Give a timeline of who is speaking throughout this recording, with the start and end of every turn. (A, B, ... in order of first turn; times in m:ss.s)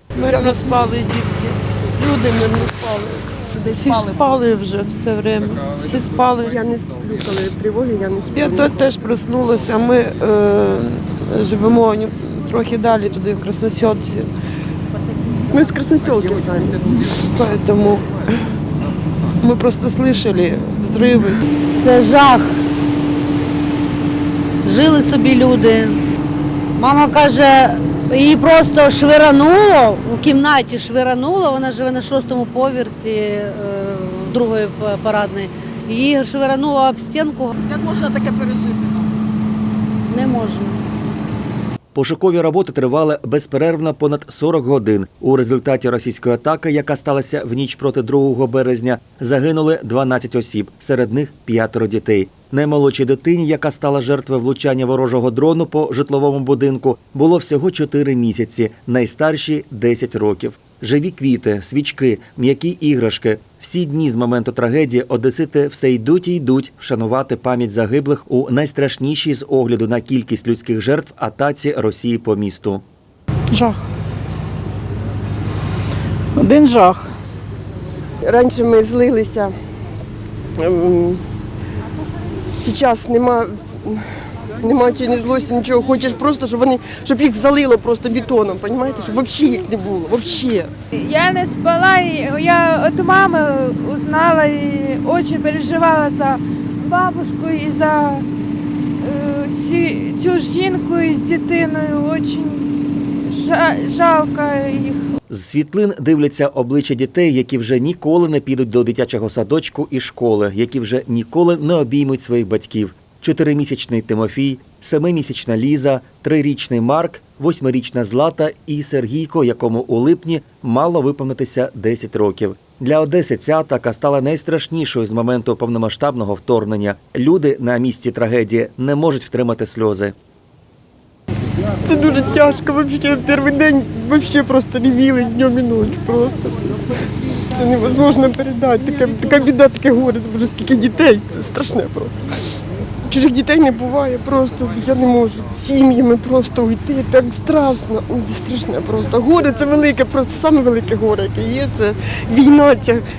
0:00.2-0:01.6 A
0:00.2-0:00.8 B
0:02.0-0:04.4 B
0:03.7-0:06.5 A
0:06.4-0:08.9 B
0:08.3-0:14.3 A
0:15.5-0:17.0 B
0:17.2-0:18.4 A
0:19.4-0:21.4 A
0:21.8-0:22.5 C
0:24.6-0:26.0 C
0:26.8-0:37.5 C
0:40.1-0:40.8 C
0:41.9-1:12.8 D
1:18.2-1:19.5 B
1:20.6-1:21.2 B
1:22.6-1:24.0 B
1:24.6-1:30.7 B
1:30.9-1:38.2 E
1:39.0-1:42.7 E
1:43.2-1:45.1 E
1:45.3-2:10.1 D
2:11.8-2:22.1 B
2:23.1-2:33.0 B